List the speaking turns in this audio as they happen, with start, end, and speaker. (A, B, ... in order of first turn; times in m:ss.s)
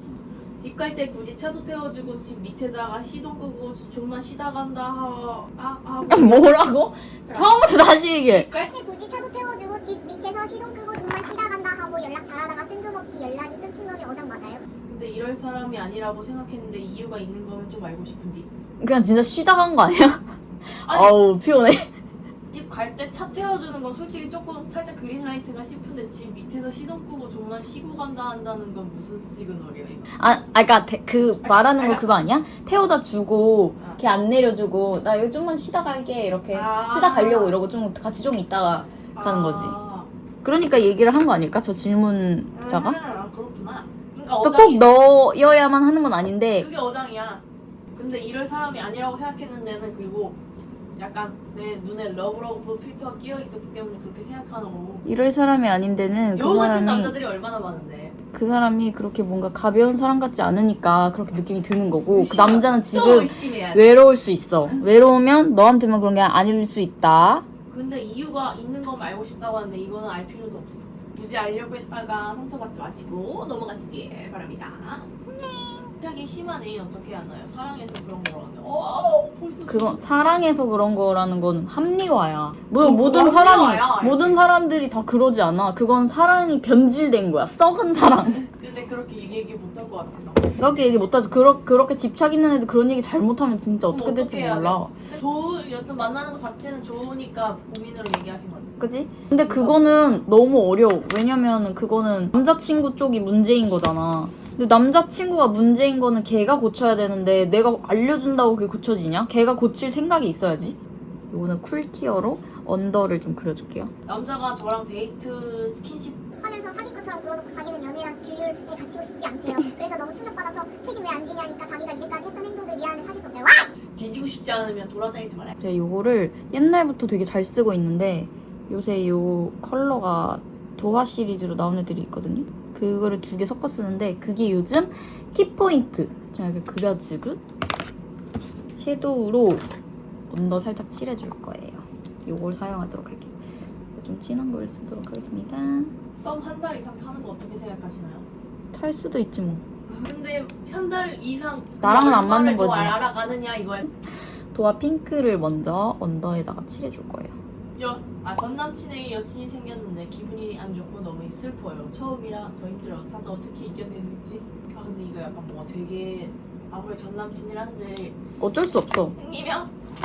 0:00.6-0:06.6 A
0:06.0-0:08.5 B
0:07.3-0:07.6 A
0:08.3-0:08.7 A
0:08.6-0:14.6 C
0:14.9-0:18.5 A
0:18.8-0:21.9 B
0:20.9-0:21.2 A
0:22.5-0:30.1 A
0:30.2-0:39.8 B
0:31.4-0:32.1 A
0:36.5-0:37.6 A
0:39.2-0:40.1 A
0:40.4-0:43.0 B
0:42.6-0:44.8 A
0:44.4-0:46.7 B
0:46.6-0:50.4 A
0:51.0-0:55.0 A
0:55.0-0:57.2 B
0:56.4-0:58.2 A
0:58.3-1:07.5 B
1:02.1-1:03.9 A
1:07.7-1:15.1 A
1:15.3-1:15.9 B
1:15.9-1:20.6 A
1:19.7-1:28.5 B
1:22.8-1:24.5 A
1:28.5-1:30.8 A
1:30.6-1:35.0 B
1:33.9-1:38.7 A
1:38.8-1:50.8 B
1:39.3-1:40.0 A
1:51.3-1:53.9 B
1:54.1-1:56.2 A
1:56.4-2:03.7 C
2:04.0-2:05.6 A
2:05.6-2:17.4 B
2:18.8-2:19.7 B
2:20.3-2:23.4 B
2:24.0-2:25.9 B
2:26.2-2:28.3 A
2:28.7-2:29.6 B
2:29.9-2:33.9 A
2:31.8-2:33.0 B
2:34.0-2:37.4 B
2:37.8-2:48.2 A
2:48.4-2:49.2 B
2:49.2-2:49.7 A